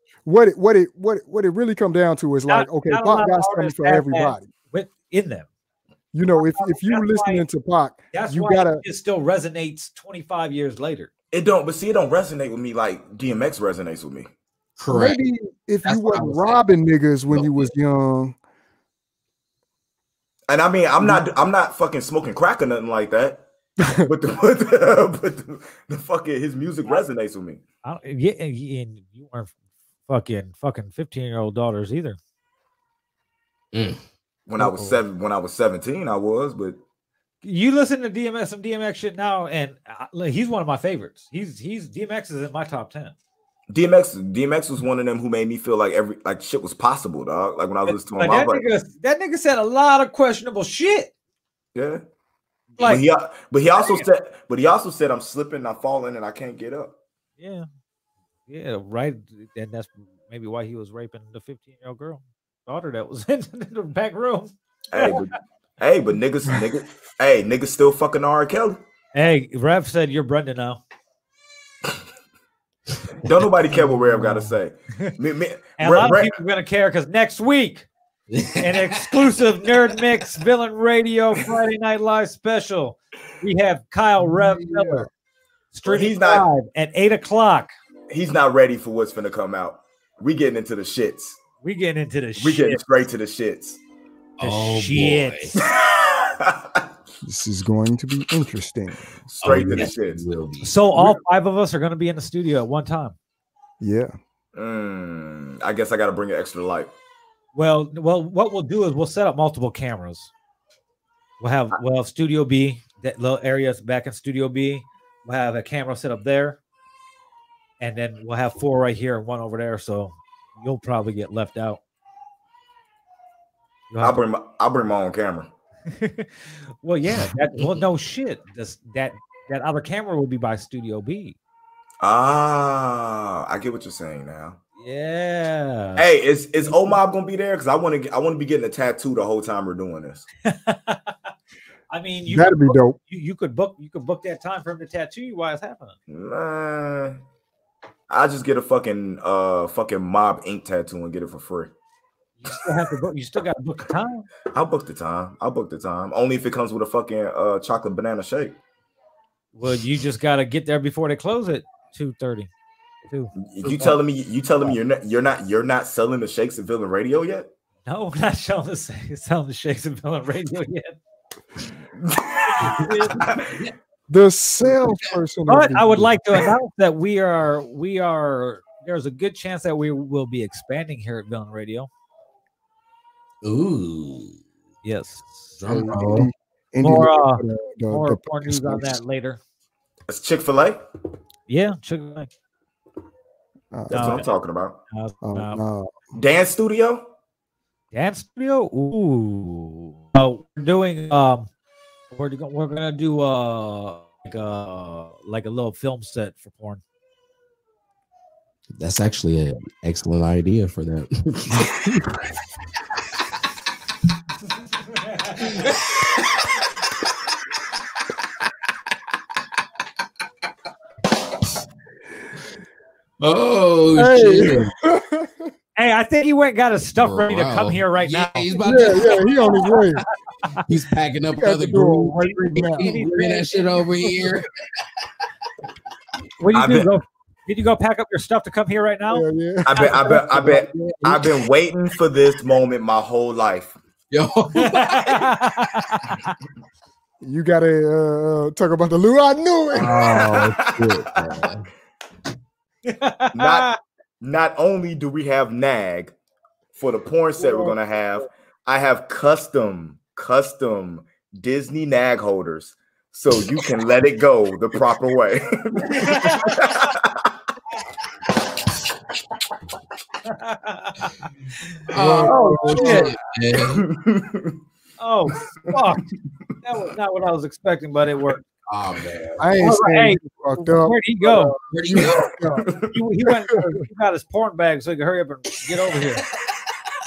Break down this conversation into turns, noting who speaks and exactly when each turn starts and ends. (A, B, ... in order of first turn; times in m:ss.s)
0:00.2-0:04.5 A
0:02.5-0:05.5 B
0:06.1-0:08.8 A
0:06.3-0:07.4 B
0:08.1-0:11.1 B
0:11.3-0:14.3 C
0:14.8-0:15.2 D
0:14.9-0:18.4 A
0:15.8-0:16.7 D
0:17.3-0:17.7 D
0:20.5-0:23.4 C
0:24.0-0:27.6 C
0:27.8-0:29.5 B
0:30.1-0:32.2 B
0:33.7-0:34.0 D
0:34.5-0:36.8 C
0:34.6-0:35.0 B
0:37.4-0:43.1 B
0:43.7-0:48.6 C
0:47.8-0:51.1 B
0:51.7-0:52.0 C
0:52.8-0:53.0 B
0:52.8-0:57.0 C
0:53.8-0:54.0 B
0:57.4-0:57.6 B
0:58.5-1:05.2 B
1:04.9-1:08.8 C
1:09.1-1:10.8 B
1:13.2-1:16.3 C
1:15.8-1:17.8 B
1:18.3-1:18.9 D
1:18.6-1:25.1 B
1:24.2-1:25.1 A
1:25.7-1:27.7 B
1:25.8-1:26.5 C
1:28.1-1:31.4 C
1:31.6-1:32.8 B
1:32.4-1:33.8 C
1:34.4-1:35.5 D
1:34.4-1:35.5 B
1:35.7-1:36.8 C
1:37.2-1:39.2 A
1:39.3-1:40.2 C
1:39.4-1:40.7 D
1:40.6-1:43.1 B
1:40.9-1:41.2 C
1:43.8-1:44.1 A
1:44.5-1:46.9 C
1:47.5-1:50.3 B
1:51.4-1:56.6 B
1:57.8-2:01.8 B
2:03.9-2:04.2 B
2:04.0-2:05.5 C
2:05.9-2:11.4 B
2:12.0-2:14.6 C
2:14.8-2:16.0 B
2:16.0-2:20.2 C
2:20.4-2:21.1 B
2:21.9-2:25.9 B
2:22.3-2:23.0 A
2:26.1-2:27.2 C
2:28.1-2:31.7 C
2:32.4-2:34.3 B
2:34.5-2:38.6 C
2:39.5-2:42.5 B
2:43.1-2:43.9 B
2:43.4-2:47.5 C
2:47.8-2:51.0 B
2:52.1-2:53.5 C
2:52.5-2:53.2 B
2:54.1-2:56.1 A
2:54.7-2:55.1 D
2:55.5-3:01.9 B
3:03.4-3:04.4 D
3:04.8-3:05.5 B
3:05.6-3:06.3 D
3:05.7-3:09.0 A
3:06.8-3:09.4 B
3:10.1-3:10.8 C
3:11.5-3:12.3 B
3:13.7-3:14.2 A
3:13.9-3:14.2 B
3:13.9-3:14.8 C
3:14.9-3:15.6 B
3:15.2-3:16.1 A
3:16.1-3:17.1 C
3:17.9-3:21.5 B
3:22.1-3:26.8 B
3:28.7-3:32.1 D
3:35.0-3:35.5 B
3:43.2-3:44.7 D
3:43.9-3:45.5 A
3:45.8-3:49.2 B
3:47.0-3:49.4 D
3:48.6-3:50.0 A
3:50.6-3:54.5 D
3:51.4-3:53.1 A
3:52.7-3:53.8 B
3:56.4-3:59.3 B
3:56.5-3:56.9 C
3:59.1-4:01.2 A
3:59.6-4:03.8 C
4:04.1-4:05.3 D
4:04.5-4:06.3 B
4:07.2-4:10.5 A
4:09.7-4:11.6 D
4:09.9-4:11.0 C
4:12.9-4:13.8 B
4:13.3-4:16.1 C
4:16.7-4:27.1 C
4:17.4-4:17.7 A
4:25.9-4:26.7 B
4:30.2-4:31.1 B
4:31.9-4:33.8 D
4:31.9-4:33.1 A
4:32.2-4:33.1 B
4:33.8-4:34.6 C
4:35.0-4:36.0 B
4:36.6-4:38.4 B
4:38.7-4:39.4 D
4:39.4-4:42.7 A
4:39.6-4:41.5 B
4:41.7-4:42.3 D
4:42.9-4:46.2 B
4:43.3-4:43.6 A